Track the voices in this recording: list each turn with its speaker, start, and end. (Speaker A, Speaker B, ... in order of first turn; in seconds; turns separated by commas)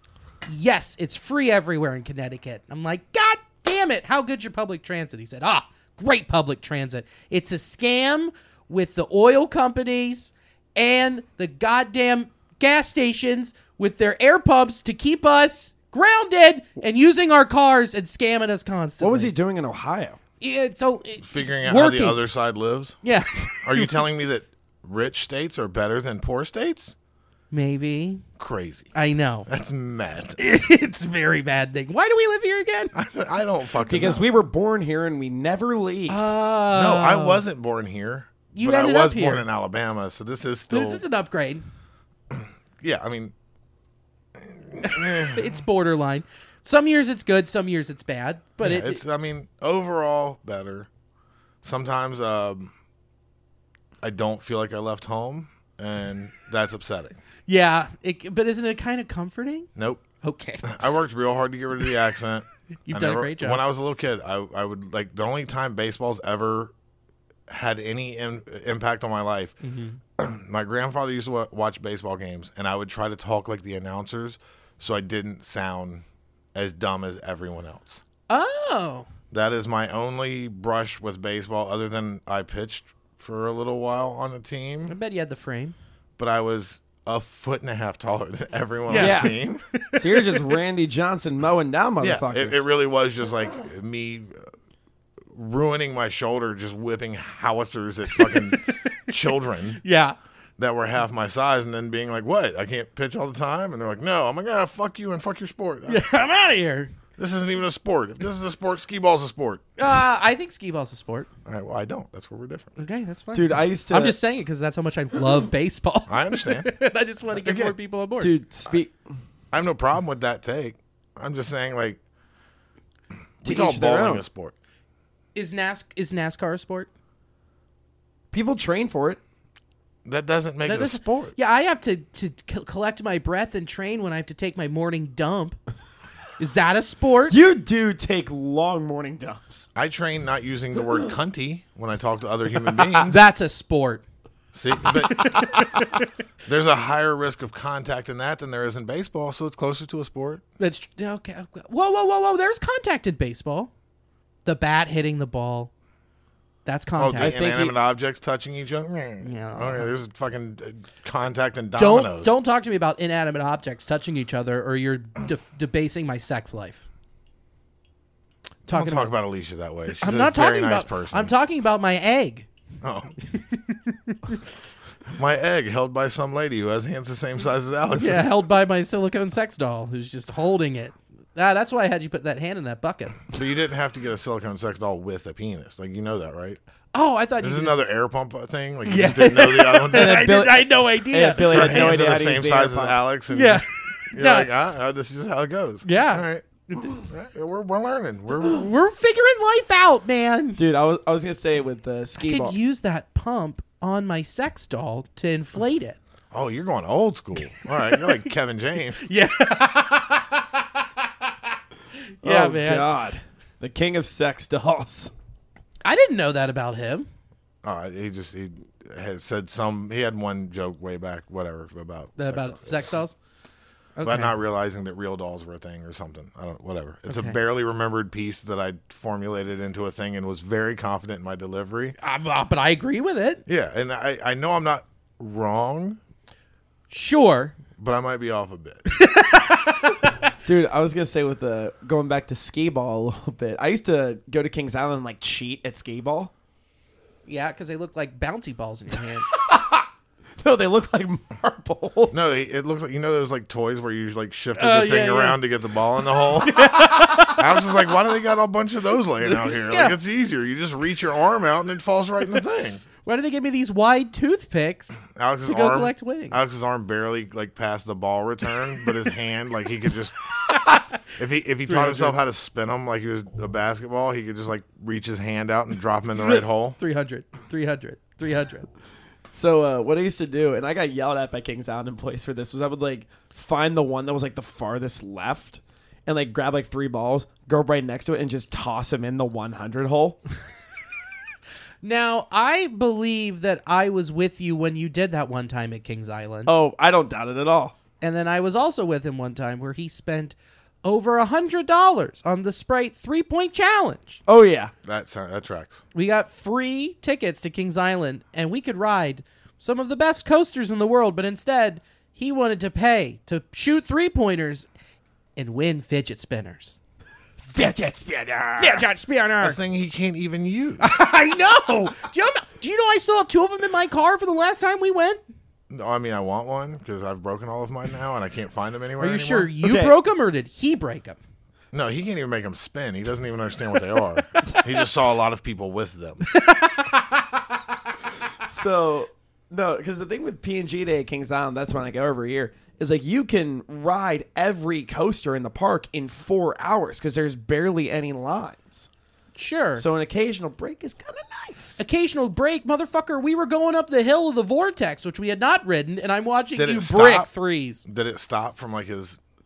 Speaker A: 0.5-19.3, Speaker B: 19.0-20.2, Speaker A: 20.4-22.2, Speaker C: 21.2-23.0, Speaker A: 23.0-24.0, Speaker C: 23.6-27.0, Speaker A: 27.5-28.2, Speaker C: 28.4-28.9, Speaker A: 28.9-29.5, Speaker C: 29.5-30.4, Speaker A: 30.4-32.9, Speaker C: 32.9-34.3, Speaker B: 33.9-36.3, Speaker A: 36.1-37.5, Speaker C: 36.7-41.0, Speaker A: 38.5-39.5, Speaker A: 40.7-41.6, Speaker C: 42.3-43.3, Speaker C: 44.4-45.6, Speaker A: 44.8-49.0, Speaker C: 48.6-50.9, Speaker C: 51.6-52.7, Speaker C: 54.0-57.2, Speaker A: 57.5-59.7, Speaker C: 59.8-60.1, Speaker A: 60.2-60.8, Speaker C: 60.6-66.7, Speaker A: 62.9-63.6, Speaker C: 67.5-69.6, Speaker A: 69.6-70.0, Speaker C: 70.2-78.0, Speaker A: 78.3-79.1, Speaker C: 79.3-85.0, Speaker A: 84.9-85.8, Speaker C: 86.2-89.6, Speaker A: 88.9-90.5, Speaker B: 88.9-89.3, Speaker B: 90.0-92.6, Speaker C: 92.0-94.5, Speaker C: 95.3-99.8, Speaker A: 98.2-99.1, Speaker A: 99.8-100.2, Speaker C: 100.6-106.1, Speaker A: 105.9-106.9, Speaker C: 107.2-109.7, Speaker A: 109.8-111.3, Speaker C: 111.5-112.8, Speaker A: 112.8-118.3, Speaker B: 113.3-114.2, Speaker C: 116.1-116.8, Speaker C: 117.3-117.8, Speaker B: 118.2-119.0, Speaker C: 119.5-122.0, Speaker C: 123.4-124.5, Speaker B: 123.4-124.2, Speaker A: 125.3-126.9, Speaker B: 128.3-129.2, Speaker C: 130.1-131.3, Speaker A: 130.7-135.6, Speaker A: 136.4-137.4, Speaker B: 137.3-139.7, Speaker C: 139.8-143.2, Speaker A: 143.0-144.0, Speaker C: 144.5-145.6, Speaker A: 145.1-145.9, Speaker C: 146.5-150.4, Speaker A: 150.6-153.7, Speaker A: 154.4-155.7, Speaker A: 156.7-157.4, Speaker C: 157.0-162.3, Speaker B: 157.2-157.8, Speaker A: 159.2-159.9, Speaker A: 161.8-166.9, Speaker A: 168.7-169.2, Speaker C: 168.7-171.3, Speaker A: 170.0-172.5, Speaker C: 172.8-173.2, Speaker A: 173.3-174.3, Speaker C: 175.1-178.3, Speaker A: 178.0-183.3, Speaker C: 183.3-186.6, Speaker A: 186.9-187.9, Speaker C: 187.4-190.4, Speaker A: 188.8-192.0, Speaker B: 189.9-193.0, Speaker C: 191.5-198.7, Speaker A: 193.3-194.5, Speaker A: 195.8-197.0, Speaker A: 198.4-200.6, Speaker B: 200.6-202.6, Speaker A: 202.2-206.0, Speaker C: 206.3-209.0, Speaker A: 207.5-208.2, Speaker A: 209.0-210.4, Speaker A: 212.2-212.9, Speaker B: 212.2-215.1, Speaker A: 215.8-217.1, Speaker C: 217.6-222.9, Speaker A: 222.2-223.2, Speaker A: 224.0-224.3, Speaker C: 224.0-232.0, Speaker A: 227.1-227.4, Speaker A: 232.0-233.4, Speaker C: 233.5-236.0, Speaker A: 236.9-237.6, Speaker C: 237.8-238.8, Speaker A: 238.9-240.2, Speaker B: 240.5-246.3, Speaker A: 247.3-249.3, Speaker B: 249.4-249.9, Speaker B: 250.4-252.3, Speaker C: 252.1-256.8, Speaker A: 254.6-255.4, Speaker A: 256.4-257.4, Speaker C: 257.4-262.8, Speaker A: 259.2-260.0, Speaker A: 263.0-266.4, Speaker C: 265.1-270.2, Speaker A: 270.5-271.0, Speaker C: 271.1-276.8, Speaker A: 271.7-272.2, Speaker A: 276.2-278.7, Speaker B: 279.3-290.2, Speaker A: 291.8-296.5, Speaker B: 296.5-297.8, Speaker A: 298.0-304.2, Speaker B: 304.3-304.7, Speaker C: 304.8-305.8, Speaker A: 305.9-314.7, Speaker A: 315.4-316.8, Speaker B: 317.6-318.8, Speaker A: 318.6-319.6, Speaker C: 319.4-320.9, Speaker A: 320.8-325.2, Speaker C: 325.7-329.5, Speaker A: 329.0-331.2, Speaker B: 329.6-330.0, Speaker C: 331.7-336.2, Speaker A: 336.3-337.1, Speaker B: 338.4-348.9, Speaker A: 349.4-349.8, Speaker B: 349.8-351.8, Speaker A: 351.8-357.9, Speaker C: 356.6-357.3, Speaker C: 357.9-359.2